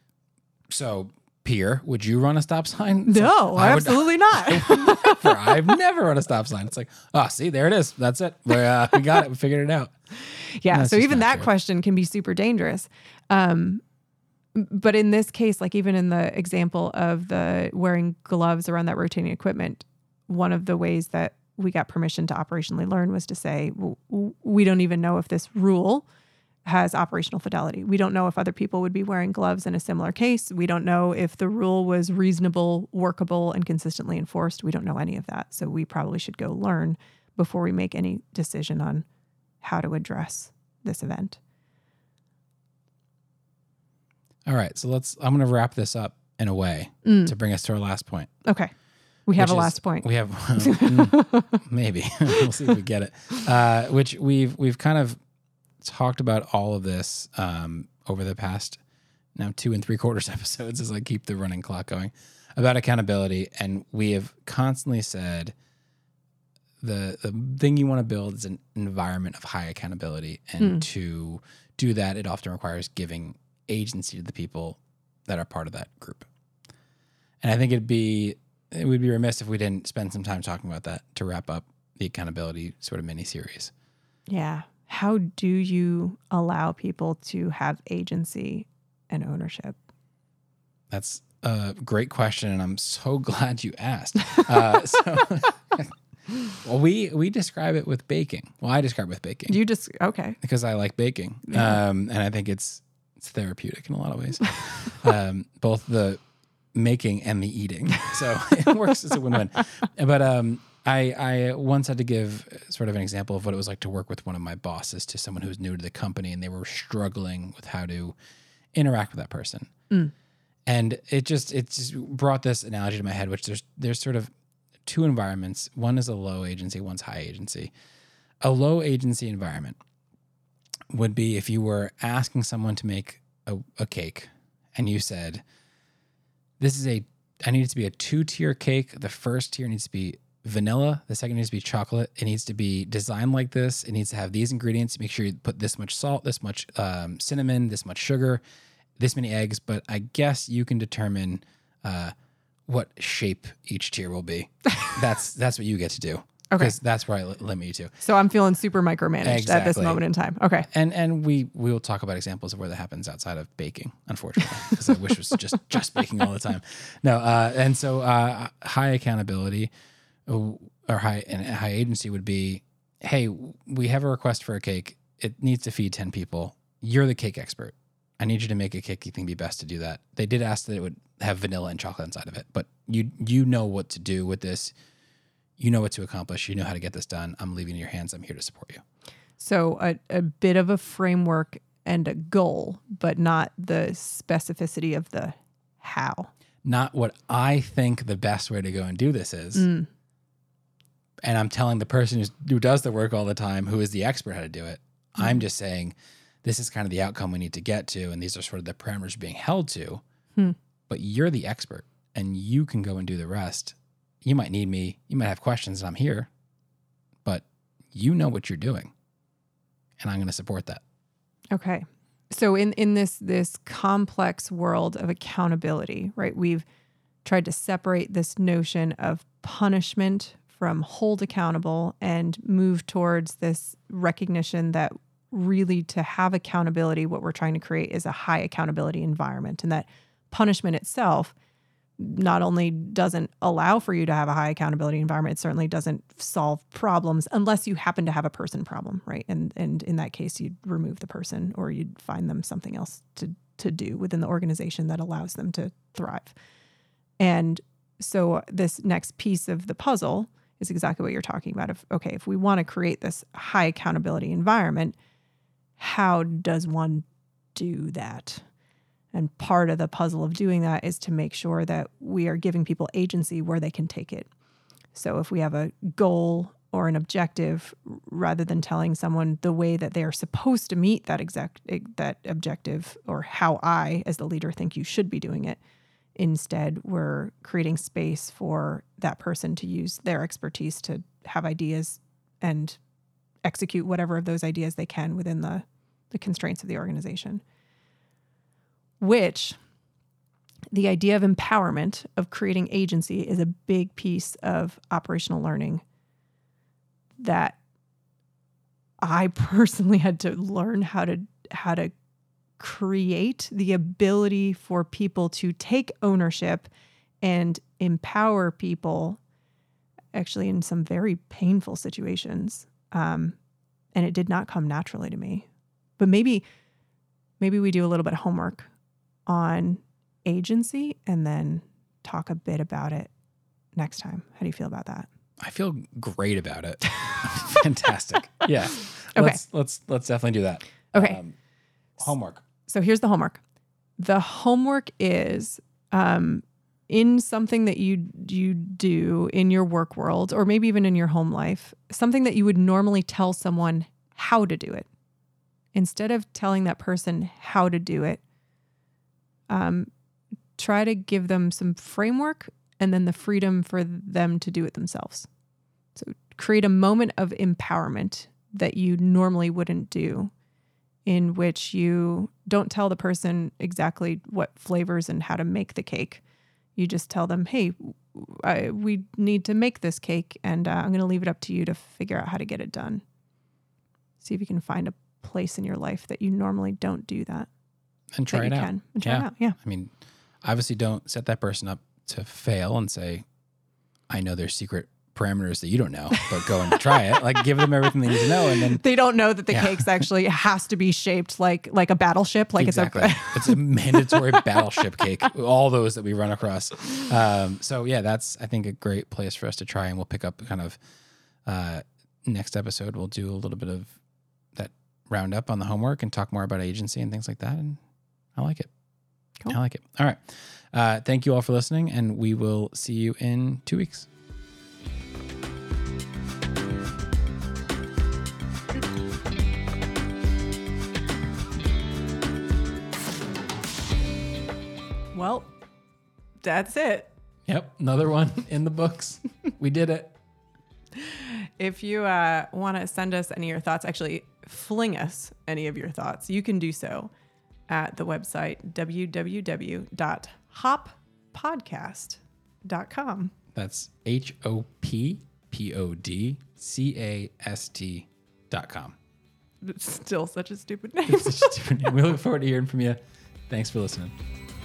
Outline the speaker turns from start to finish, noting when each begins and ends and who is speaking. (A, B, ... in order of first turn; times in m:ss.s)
0:00.7-0:09.9 A
0:03.1-0:05.5 B
0:10.3-0:13.8 B
0:10.7-0:11.5 A
0:14.6-0:26.0 B
0:26.7-0:39.0 B
0:39.6-0:41.4 B
0:44.5-0:48.3 A
0:47.0-0:47.3 B
0:48.4-0:48.7 B
0:49.3-0:51.6 B
0:49.4-0:55.2 A
0:55.8-0:58.8 A
0:59.4-1:05.5 A
1:06.8-1:16.3 A
1:10.6-1:10.8 B
1:17.4-1:23.7 A
1:24.3-1:29.8 B
1:30.9-1:35.9 A
1:36.6-1:39.6 A
1:39.5-1:40.4 B
1:40.4-1:46.2 A
1:41.5-1:41.8 B
1:46.7-1:58.2 A
1:58.7-1:59.7 A
2:00.7-2:04.3 A
2:04.8-2:07.7 A
2:08.4-2:09.8 A
2:10.9-2:15.4 A
2:16.6-2:28.4 A
2:29.0-2:32.1 A
2:32.7-2:37.9 A
2:38.0-2:40.7 B
2:39.2-2:40.0 A
2:40.7-2:49.7 A
2:50.3-3:04.7 A
3:05.6-3:08.8 A
3:09.4-3:16.3 B
3:16.6-3:19.7 A
3:19.6-3:19.9 B
3:21.2-3:30.0 A
3:30.9-3:36.3 A
3:37.2-3:38.9 A
3:40.0-3:40.8 A
3:41.5-3:46.6 B
3:47.2-4:01.3 B
4:02.0-4:16.4 B
4:17.2-4:24.9 B
4:25.8-4:28.4 B
4:29.1-4:34.3 B
4:34.9-4:45.6 B
4:46.2-4:52.8 B
4:53.4-4:57.4 B
4:59.0-4:59.6 B
5:00.7-5:05.8 B
5:07.2-5:07.6 B
5:09.0-5:11.9 B
5:12.6-5:16.7 B
5:17.2-5:19.2 B
5:20.1-5:23.4 B
5:24.0-5:25.5 B
5:26.0-5:26.4 B
5:27.4-5:28.7 B
5:29.3-5:33.1 B
5:33.8-5:35.1 B
5:35.4-5:41.4 A
5:40.9-5:41.2 B
5:42.0-5:42.4 A
5:42.7-5:43.4 B
5:44.0-5:54.9 B
5:55.7-5:58.2 B
5:59.5-5:59.9 B
6:00.6-6:05.3 B
6:06.0-6:10.3 B
6:11.1-6:16.2 B
6:16.8-6:23.0 B
6:24.2-6:27.5 B
6:28.1-6:29.9 A
6:28.3-6:29.6 B
6:30.4-6:33.2 A
6:34.1-6:38.8 A
6:36.1-6:37.0 B
6:38.1-6:44.5 B
6:39.5-6:39.9 A
6:42.6-6:50.8 A
6:51.4-6:54.0 A
6:54.6-6:57.8 A
6:58.4-6:58.7 A
6:59.5-7:04.1 A
7:15.1-7:15.5 B
7:16.4-7:17.1 B
7:17.5-7:20.2 A
7:21.0-7:27.1 B
7:27.7-7:33.3 B
7:33.5-7:39.0 A
7:39.6-7:41.6 B
7:41.1-7:44.1 A